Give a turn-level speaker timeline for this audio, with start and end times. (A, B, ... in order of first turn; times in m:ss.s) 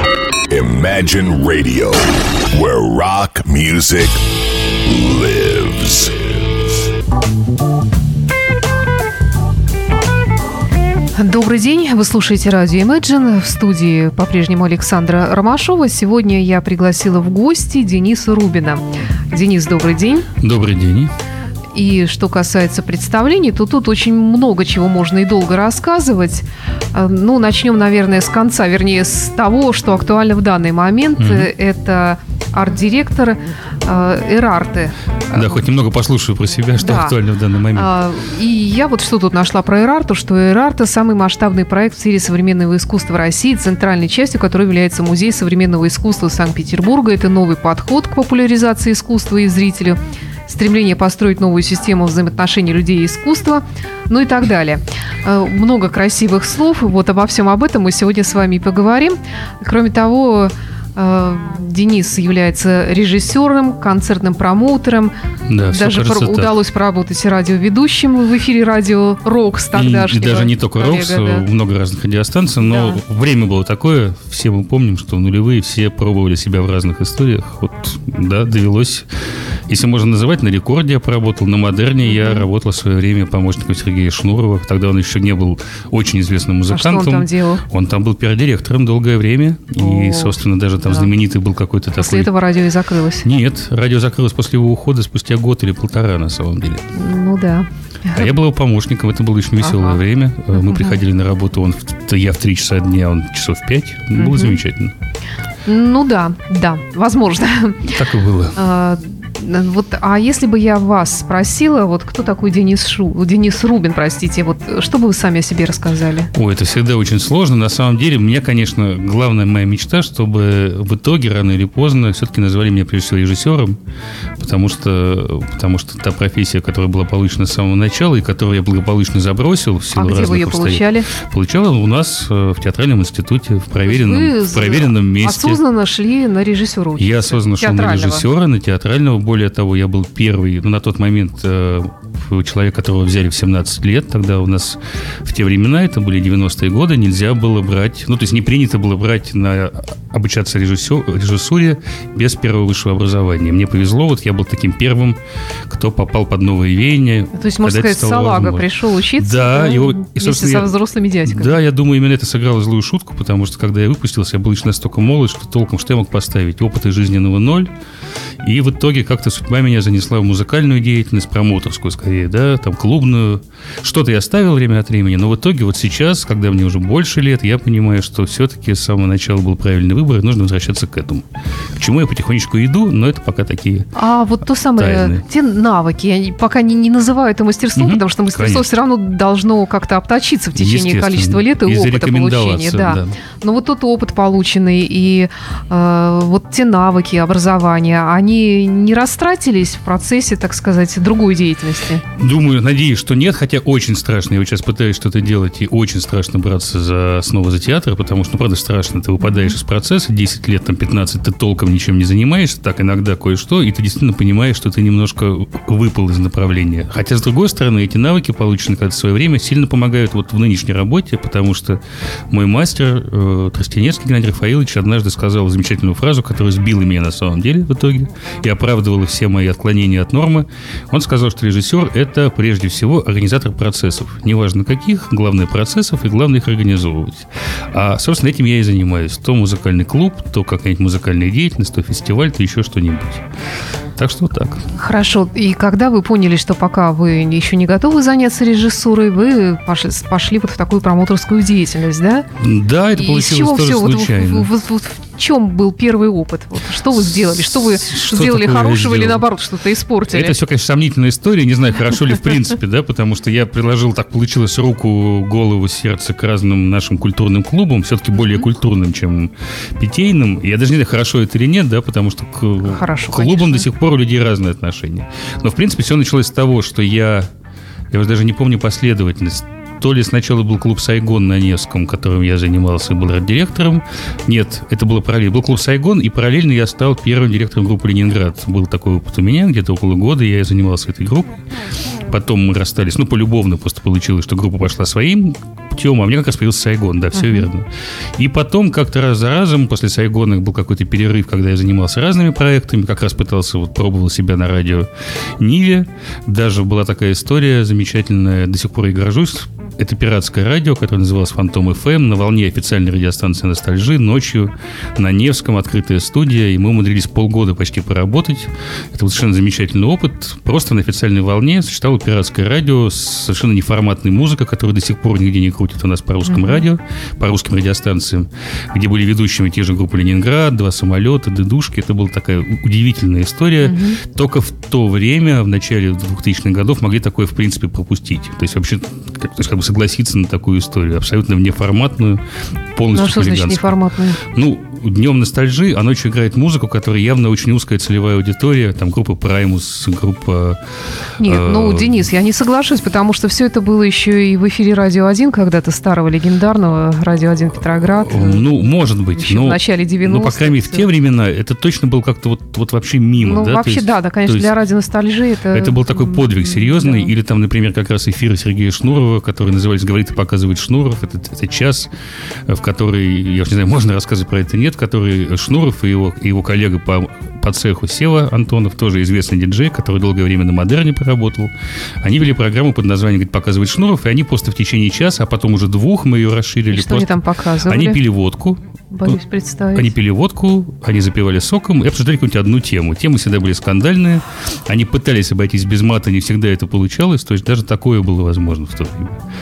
0:00.5-0:04.2 A
0:04.8-0:06.2 A
0:11.2-0:20.3 B
0:20.4-0:21.1 C
0:21.7-0:35.6 B
0:31.2-0:31.5 C
0:35.3-0:37.9 C
0:36.8-0:37.2 B
0:37.7-1:05.2 B
1:05.5-1:06.5 C
1:05.7-1:11.5 B
1:09.7-1:19.1 C
1:12.6-1:13.0 B
1:19.7-1:32.3 C
1:22.0-1:22.5 B
1:26.7-1:27.6 B
1:29.8-1:31.1 B
1:32.0-1:33.3 B
1:33.2-1:36.9 C
1:36.9-1:38.3 B
1:38.1-1:44.9 C
1:39.6-1:40.0 B
1:40.6-1:41.0 B
1:44.2-1:44.6 B
1:45.7-1:48.0 B
1:47.9-1:48.6 C
1:48.6-1:56.3 B
1:56.3-2:03.8 C
2:04.4-2:15.6 C
2:10.0-2:11.1 B
2:13.8-2:18.3 B
2:17.0-2:40.7 C
2:37.3-2:41.6 B
2:41.3-2:47.7 C
2:48.4-3:03.9 C
3:04.0-3:22.0 B
3:04.8-3:05.2 C
3:07.8-3:08.7 C
3:10.6-3:13.2 C
3:22.2-4:03.3 C
3:29.2-3:29.5 B
4:04.0-4:04.7 C
4:04.8-4:12.3 B
4:12.4-4:14.5 C
4:12.9-4:20.4 B
4:16.9-4:19.3 C
4:20.1-4:37.3 C
4:32.6-4:33.7 B
4:37.9-4:51.4 C
4:52.1-5:04.9 C
4:57.2-4:57.5 B
5:05.4-5:42.2 C
5:26.3-5:26.6 B
5:33.6-5:34.0 B
5:42.8-5:50.6 C
5:42.9-5:44.2 B
5:51.2-5:58.4 B
5:51.2-5:52.0 C
5:58.0-6:04.5 C
5:59.2-6:00.9 B
6:03.2-6:07.1 B
6:05.5-6:11.9 C
6:12.5-6:29.2 C
6:26.7-6:28.0 B
6:28.9-6:29.9 B
6:29.7-6:39.2 C